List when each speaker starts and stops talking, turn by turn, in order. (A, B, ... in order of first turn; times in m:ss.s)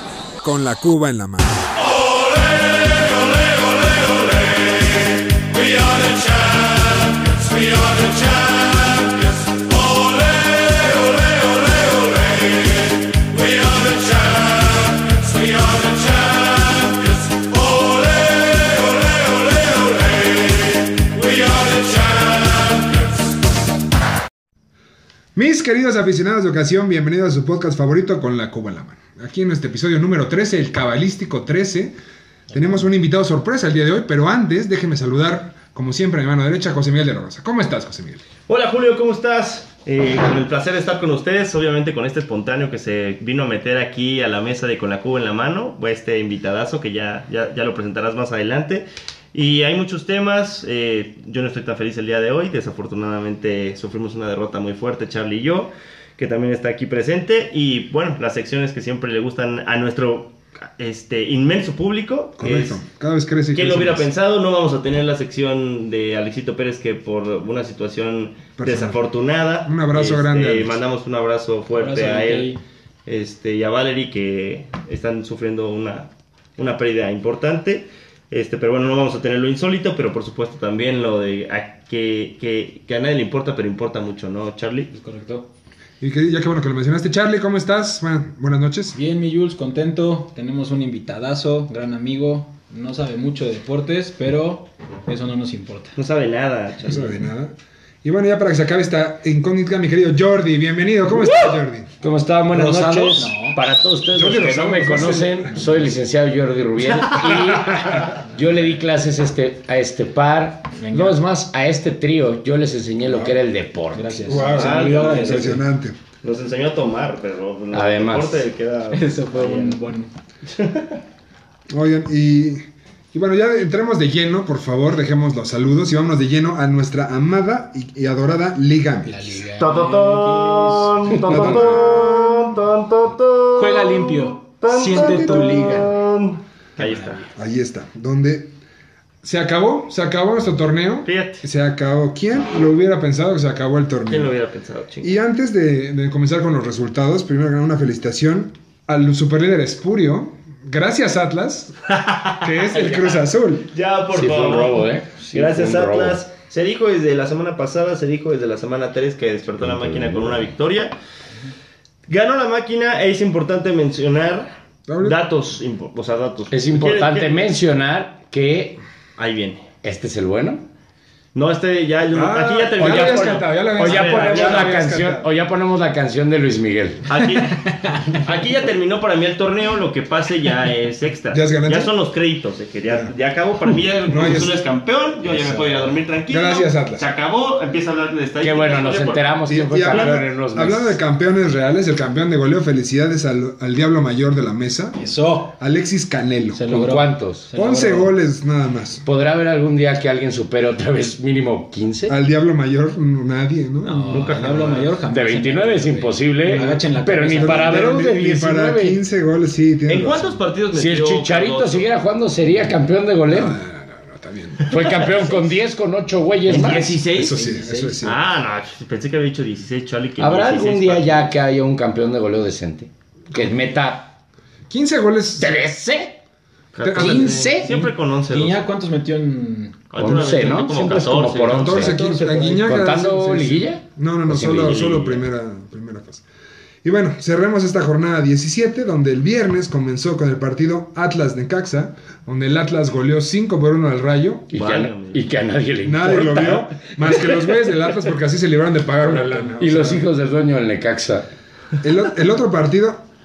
0:00.4-0:01.7 A
0:25.3-0:31.9 A
0:32.5-0:38.2 A
0:38.5-1:02.8 B
1:02.4-1:04.0 A
1:03.5-1:12.5 B
1:08.6-1:09.0 A
1:09.6-1:10.8 A
1:11.7-1:12.6 C
1:13.0-1:24.9 B
1:24.9-1:25.5 C
1:26.0-1:29.0 A
1:28.9-1:35.9 C
1:36.0-1:37.2 B
1:36.8-1:41.9 A
1:42.0-1:54.5 D
1:42.5-1:43.6 C
1:44.1-1:45.8 A
1:47.0-1:47.9 B
1:50.7-1:51.2 C
1:53.1-1:53.4 A
1:53.9-1:55.6 C
1:54.2-1:56.0 A
1:54.4-1:55.6 B
1:56.2-1:59.9 B
1:57.7-1:58.4 D
1:58.9-2:00.1 C
2:00.4-2:01.0 B
2:01.7-2:09.2 A
2:09.0-2:11.5 C
2:09.6-2:17.2 B
2:11.2-2:12.6 A
2:13.5-2:15.9 C
2:14.8-2:15.9 A
2:16.8-2:17.3 C
2:17.4-2:18.5 A
2:19.2-2:24.3 A
2:21.0-2:21.4 B
2:24.0-2:25.1 B
2:25.0-2:31.8 A
2:31.9-2:40.9 B
2:32.4-2:33.7 A
2:34.1-2:36.2 D
2:39.6-2:40.4 D
2:42.1-2:47.4 B
2:44.9-2:45.2 A
2:46.5-2:48.8 D
2:49.2-2:49.7 B
2:49.8-2:50.6 D
2:51.3-2:54.8 B
2:52.1-2:55.3 A
2:52.8-2:57.1 D
2:57.1-3:09.3 B
3:01.3-3:01.9 A
3:04.1-3:04.6 A
3:05.3-3:05.9 C
3:06.3-3:07.0 A
3:08.4-3:11.0 D
3:09.5-3:15.0 A
3:15.0-3:15.6 C
3:15.6-3:16.8 A
3:16.5-3:18.1 C
3:16.6-3:17.5 D
3:17.5-3:19.0 A
3:19.0-3:22.2 D
3:22.1-3:24.2 A
3:23.8-3:27.9 C
3:24.1-3:25.0 B
3:25.1-3:29.0 D
3:27.3-3:30.3 A
3:29.9-3:31.9 B
3:30.7-3:33.6 D
3:33.3-3:34.7 A
3:34.6-3:35.4 B
3:34.7-3:37.0 D
3:36.5-3:37.3 B
3:36.5-3:38.1 C
3:37.1-3:38.2 A
3:38.0-3:41.3 B
3:40.2-3:44.1 D
3:43.3-3:43.6 A
3:44.7-3:45.6 A
3:45.4-3:46.2 D
3:46.7-3:48.6 B
3:46.8-3:47.5 A
3:46.9-3:47.9 D
3:48.3-3:49.9 C
3:49.9-3:51.9 B
3:49.9-3:52.0 D
3:51.5-3:56.2 A
3:51.7-3:52.9 C
3:52.6-3:54.9 D
3:54.6-3:55.2 B
3:56.8-4:04.5 A
4:04.5-4:07.5 D
4:04.5-4:05.2 B
4:05.8-4:10.0 A
4:09.0-4:11.3 D
4:11.8-4:13.0 A